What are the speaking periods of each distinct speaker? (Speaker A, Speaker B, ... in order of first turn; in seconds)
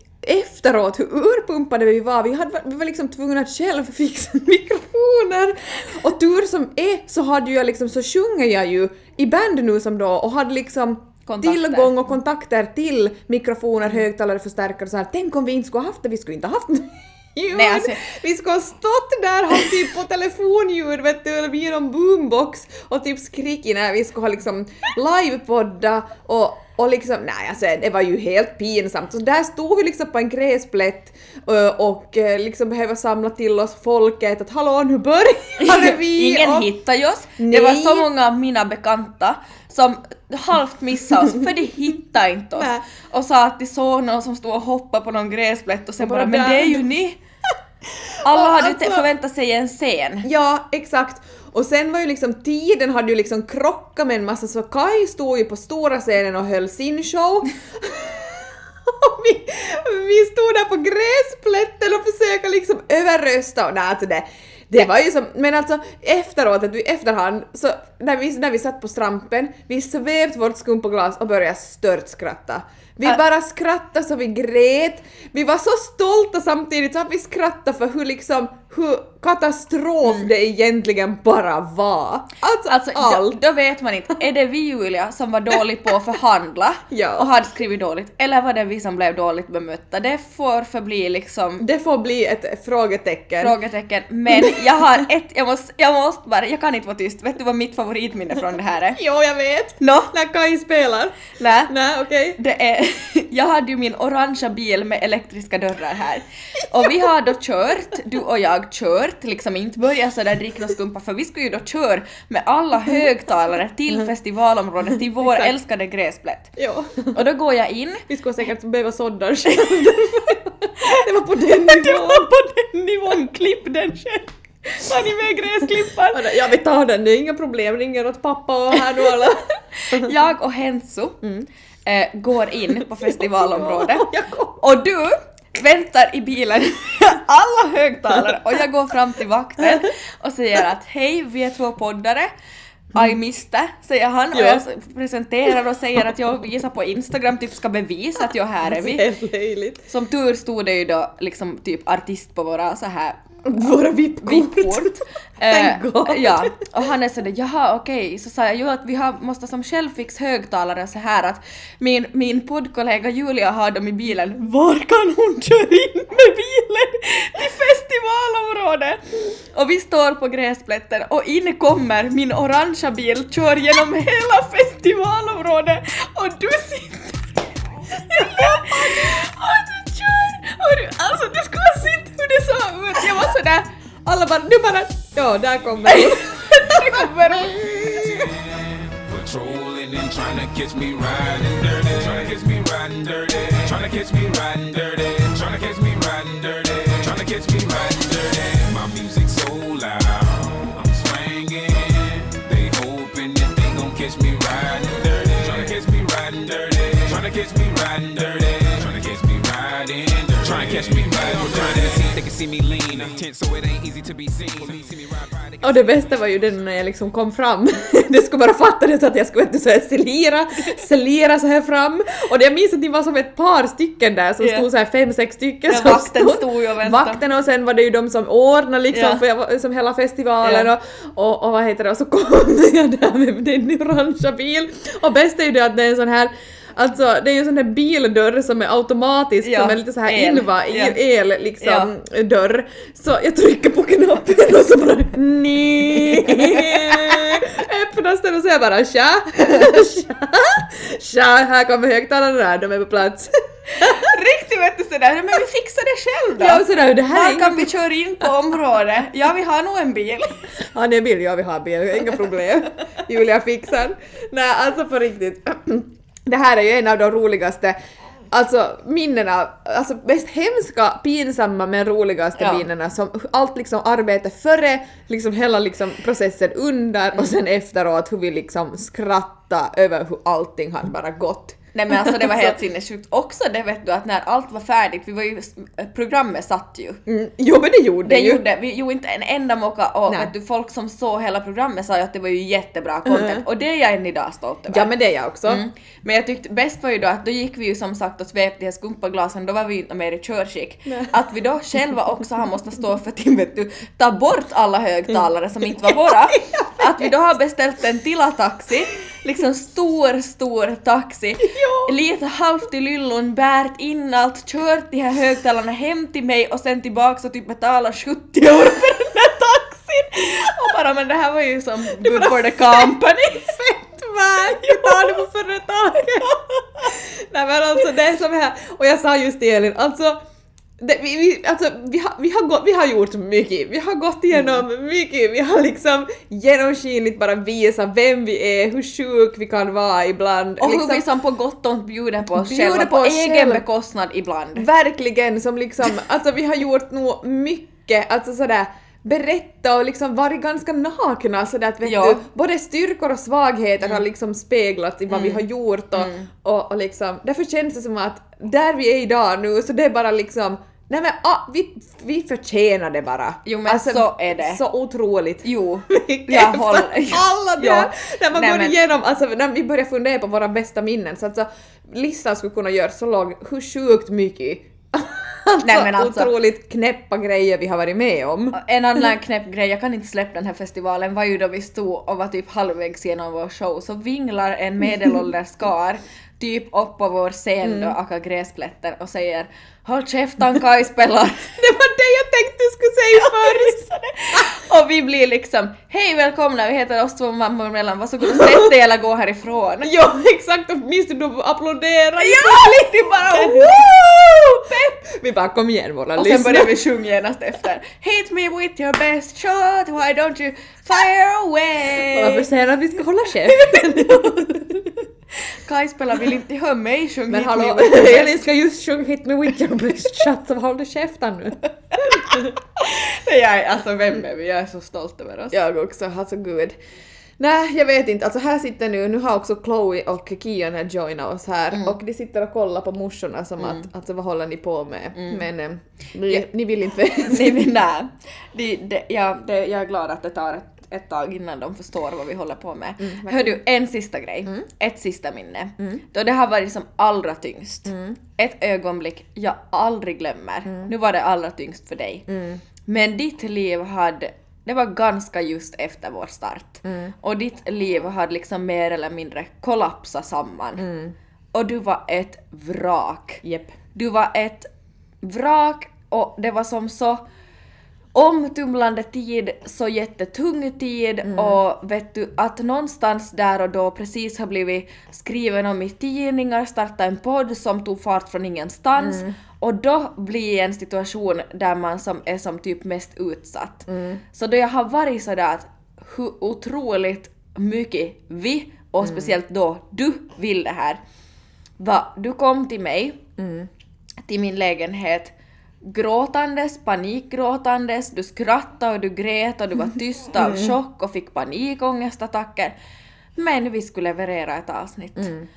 Speaker A: 0.2-36.7, 37.4-38.1, 42.5-42.8, 46.0-46.9, 48.2-49.0, 50.2-83.4, 86.9-87.3, 91.6-93.6, 94.3-95.0, 98.9-102.4, 106.8-107.1, 115.2-115.5, 116.6-117.2, 118.1-122.4, 126.1-130.1, 132.8-134.6, 144.3-144.6, 148.6-149.8, 153.4-156.7, 178.1-179.2, 182.9-183.3, 184.0-188.1, 215.6-254.1, 256.3-257.7, 260.6-267.8, 268.3-282.6, 287.1-288.4, 293.1-293.4, 294.7-295.6, 305.8-307.1, 311.4-311.9, 321.9-330.2, 330.8-341.1, 342.3-343.6, 344.6-378.6, 387.6-387.9, 391.6-394.5, 399.8-406.8, 412.1-414.9, 417.3-422.4, 425.5-426.8, 427.4-437.7, 443.0-443.6, 447.9-448.1, 452.3-452.6, 456.8-457.1, 460.8-461.1, 463.4-463.7, 471.2-471.6, 479.0-479.3, 483.9-484.2, 489.0-489.4, 493.4-493.7, 500.4-500.7, 505.2-505.5
Speaker B: 11.2-12.0, 17.5-18.0, 35.6-47.2, 48.2-50.3, 82.6-91.6, 93.4-99.0, 99.8-100.1, 101.3-101.7, 102.4-116.5, 117.1-118.0, 119.5-120.0, 120.8-126.2, 129.8-131.3, 131.8-142.3, 142.9-149.1, 149.9-177.3, 177.9-183.7, 185.8-188.2, 224.4-224.7, 225.7-227.2, 228.9-229.2, 230.4-230.7, 239.4-241.0, 241.6-241.9, 246.3-247.0, 253.8-260.5, 272.4-272.6, 281.7-287.0, 288.0-294.9, 295.5-323.6, 324.4-325.2, 326.2-326.9, 340.6-344.7, 351.8-352.2, 355.1-355.4, 355.9-356.3, 363.4-364.6, 365.4-368.8, 375.6-376.4, 378.5-391.6, 393.1-399.9, 402.2-403.8, 406.1-412.5, 413.4-414.7, 415.4-418.5, 421.9-425.6, 431.7-432.0, 435.1-435.4, 437.1-452.3, 452.9-460.9, 461.5-463.4, 463.9-464.7, 465.2-467.2, 468.1-491.0, 491.8-493.2, 494.2-495.3, 495.8-502.7, 503.4-505.3
Speaker C: 188.1-213.7, 214.2-215.3